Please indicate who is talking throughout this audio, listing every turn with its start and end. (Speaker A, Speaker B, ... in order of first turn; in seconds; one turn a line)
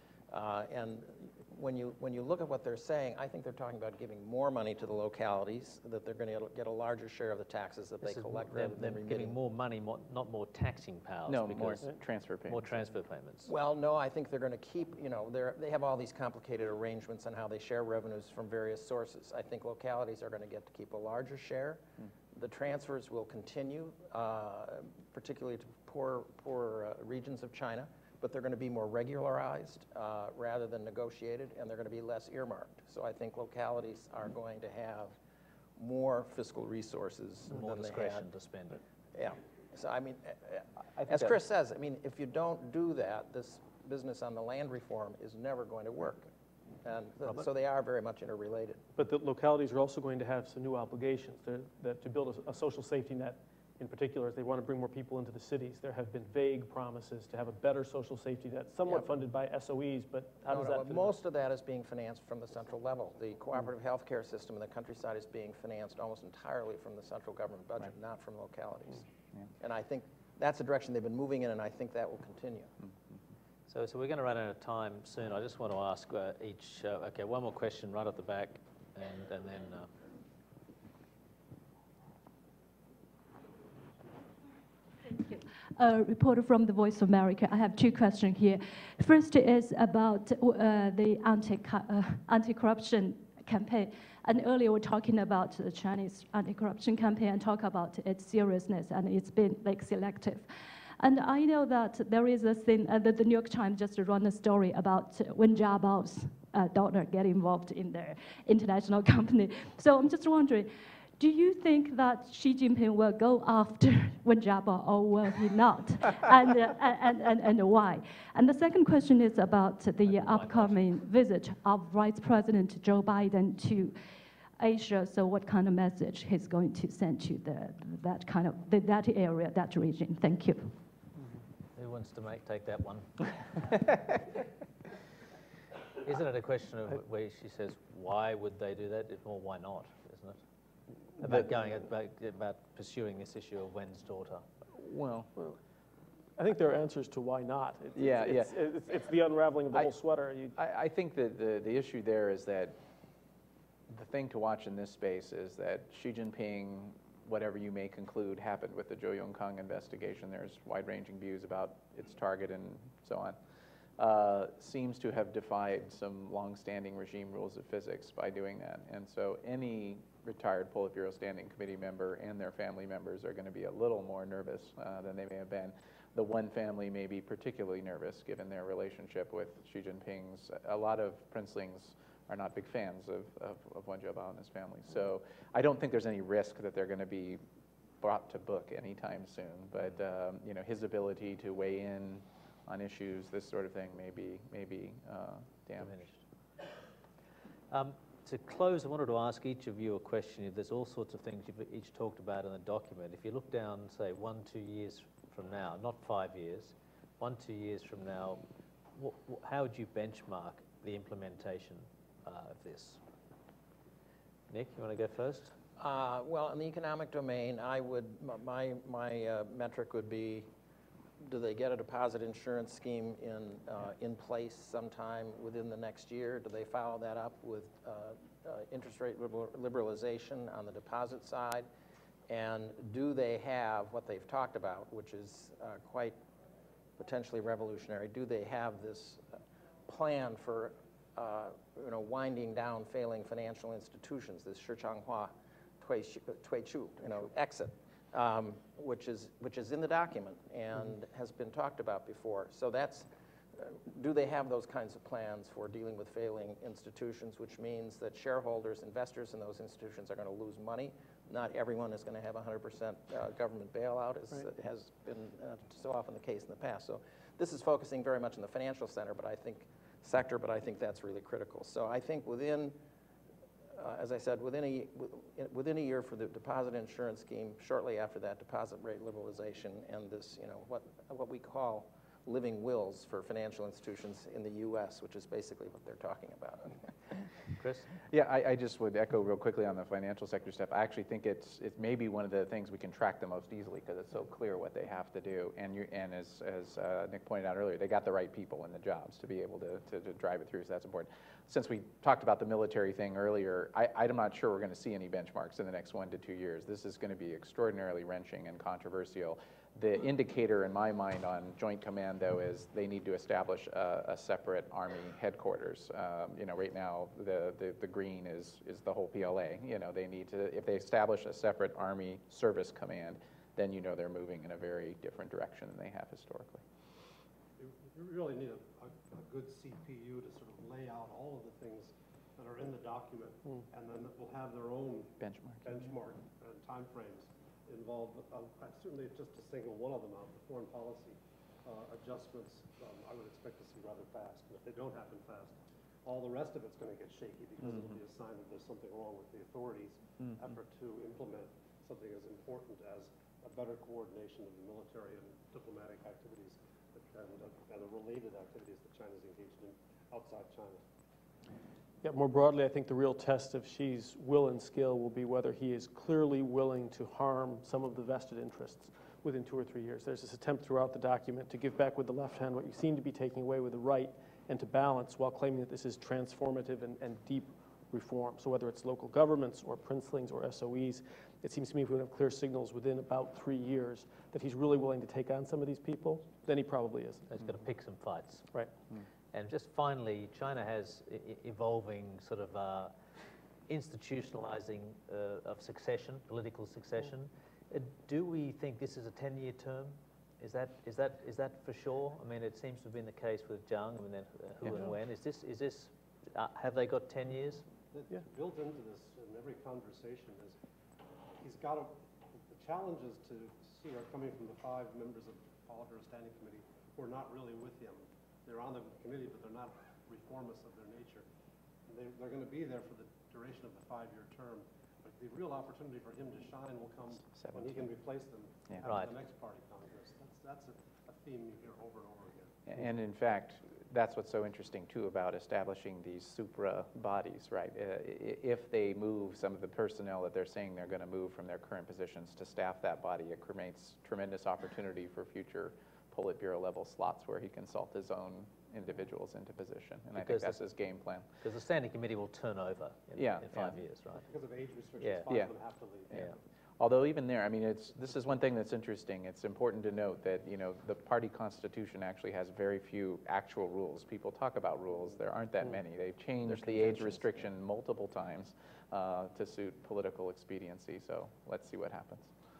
Speaker A: 0.3-9.3
Speaker B: 8.0-11.9
Speaker C: 11.3-12.8
Speaker B: 12.5-13.5
Speaker A: 13.4-35.2
Speaker A: 35.8-38.2
Speaker B: 37.5-38.8
Speaker A: 39.1-46.3
Speaker C: 40.9-41.4
Speaker A: 46.8-48.8
Speaker D: 49.0-61.1
Speaker A: 60.5-69.0
Speaker A: 69.6-72.7
Speaker B: 73.7-79.9
Speaker E: 85.0-124.0
Speaker B: 120.1-120.8
Speaker E: 124.6-130.7
Speaker B: 131.8-133.8
Speaker B: 136.0-140.4
Speaker B: 141.2-144.4
Speaker C: 141.2-141.5
Speaker C: 144.8-145.3
Speaker D: 146.4-150.5
Speaker C: 147.9-148.6
Speaker C: 150.5-152.8
Speaker C: 153.9-163.4
Speaker C: 164.0-187.4
Speaker C: 188.0-195.9
Speaker B: 195.8-196.2
Speaker B: 197.7-208.4
Speaker B: 208.9-213.0
Speaker B: 214.5-215.5
Speaker A: 215.8-220.5
Speaker A: 221.2-231.7
Speaker A: 232.3-236.2
Speaker A: 237.0-239.3
Speaker A: 239.9-272.8
Speaker A: 273.7-286.8
Speaker B: 287.6-287.9
Speaker C: 288.1-326.6
Speaker F: 327.6-360.8
Speaker C: 335.2-335.8
Speaker D: 362.0-387.2
Speaker B: 387.3-388.5
Speaker B: 389.3-392.9
Speaker B: 393.7-407.6
Speaker F: 407.9-410.6
Speaker F: 411.4-411.9
Speaker F: 412.5-421.2
Speaker F: 421.9-432.6
Speaker C: 427.4-427.8
Speaker B: 428.8-429.1
Speaker C: 432.7-451.3
Speaker B: 450.1-450.6
Speaker B: 451.4-454.2
Speaker C: 453.2-453.8
Speaker F: 454.2-456.1
Speaker B: 455.0-455.2
Speaker C: 456.1-472.3
Speaker B: 456.1-456.4
Speaker B: 466.4-467.5